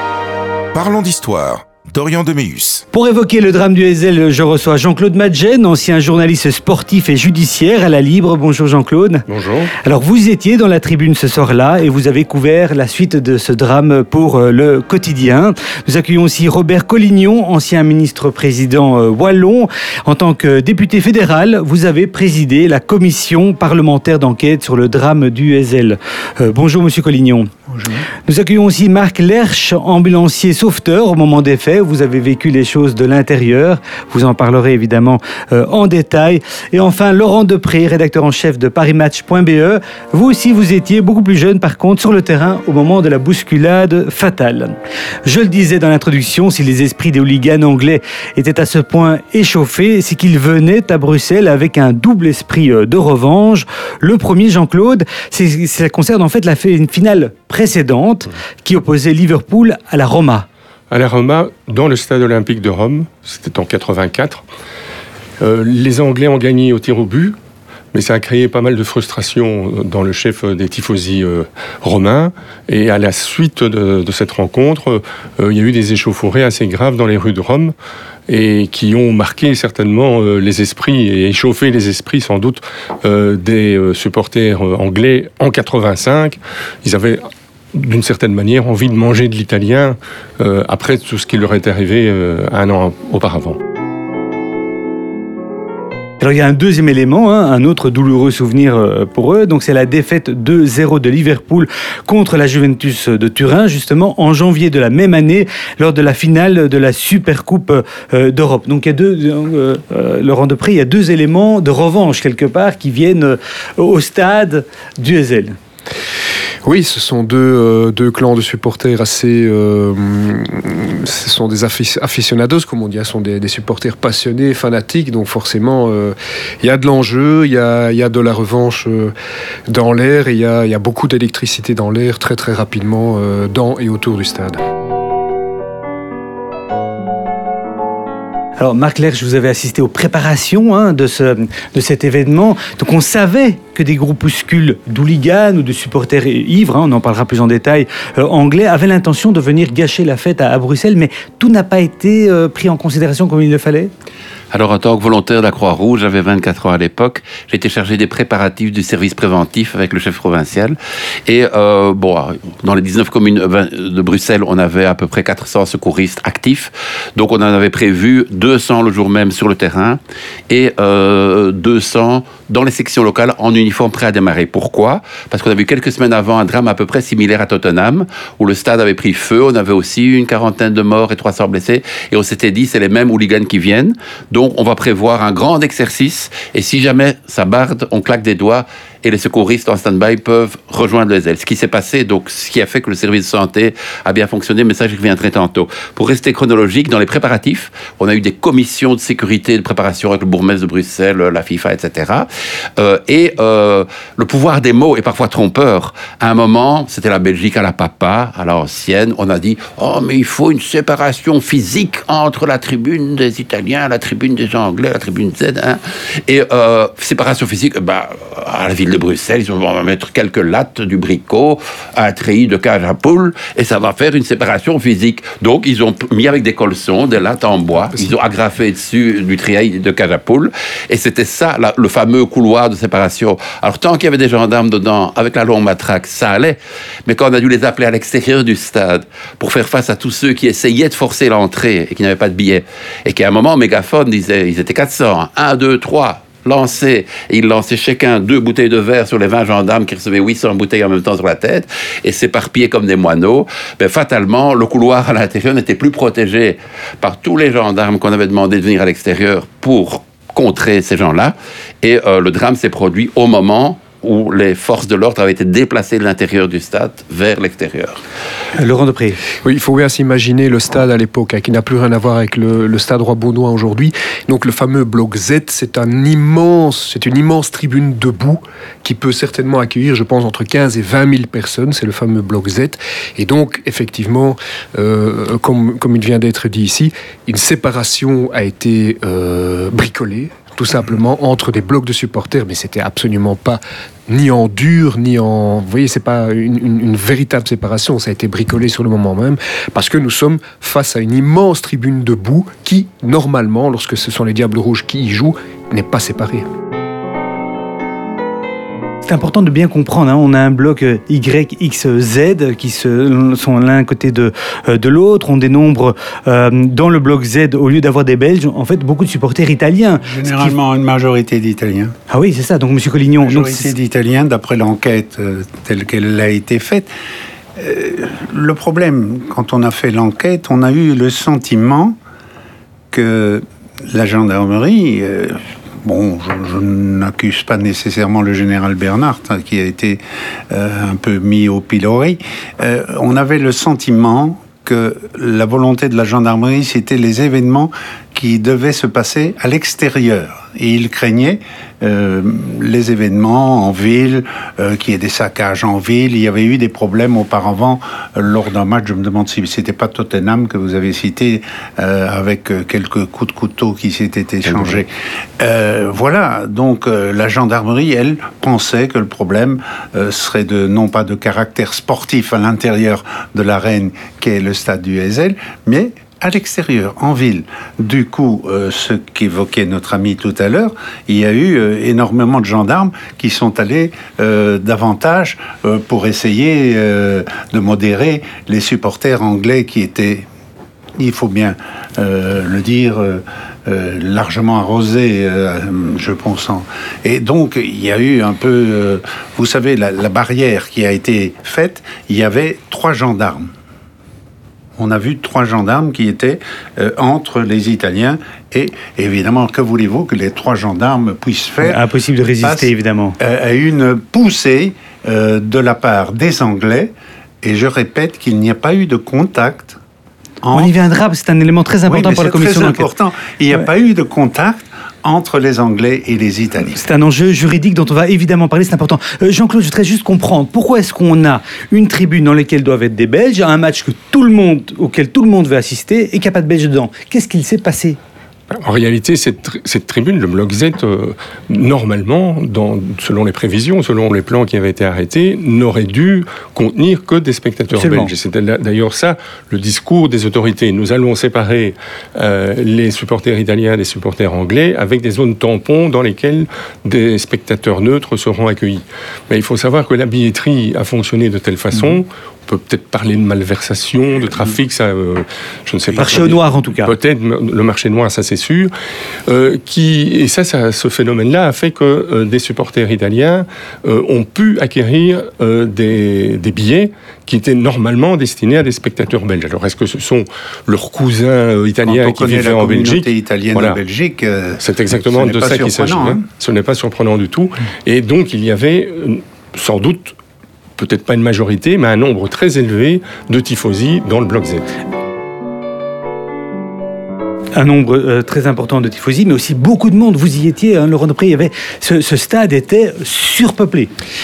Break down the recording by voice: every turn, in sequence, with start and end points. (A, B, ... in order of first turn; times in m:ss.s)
0:00.7-0:02.8 A
0:02.9-0:09.3 B
0:09.3-0:09.7 C
0:09.8-0:27.5 B
0:27.7-0:28.0 D
0:28.3-1:00.5 B
1:00.9-1:04.4 C
1:05.4-1:07.4 C
1:07.9-1:17.7 C
1:18.3-1:33.6 C
1:36.2-1:55.6 B
1:56.6-2:09.1 E
2:09.7-2:14.6 E
2:18.6-2:33.9 B
2:34.5-4:28.0 F
4:28.6-4:29.2 B
4:29.4-5:06.5 E
5:09.0-5:20.5 B
5:20.0-5:22.0 D
5:22.1-5:23.7 B
5:23.2-5:26.9 D
5:27.6-5:32.0 D
5:32.9-6:30.3 D
6:31.0-6:43.5 D
6:44.8-6:51.8 D
6:51.6-6:53.2 B
6:52.4-6:59.8 D
7:00.4-7:00.8 D
7:00.5-7:02.9 B
7:01.9-7:06.8 D
7:06.8-7:18.0 B
7:18.6-7:48.7 C
7:27.7-7:28.1 B
7:45.9-7:46.9 B
7:49.3-8:03.8 C
8:01.9-8:06.2 D
8:04.6-8:10.2 C
8:10.8-8:14.7 C
8:17.5-8:23.9 B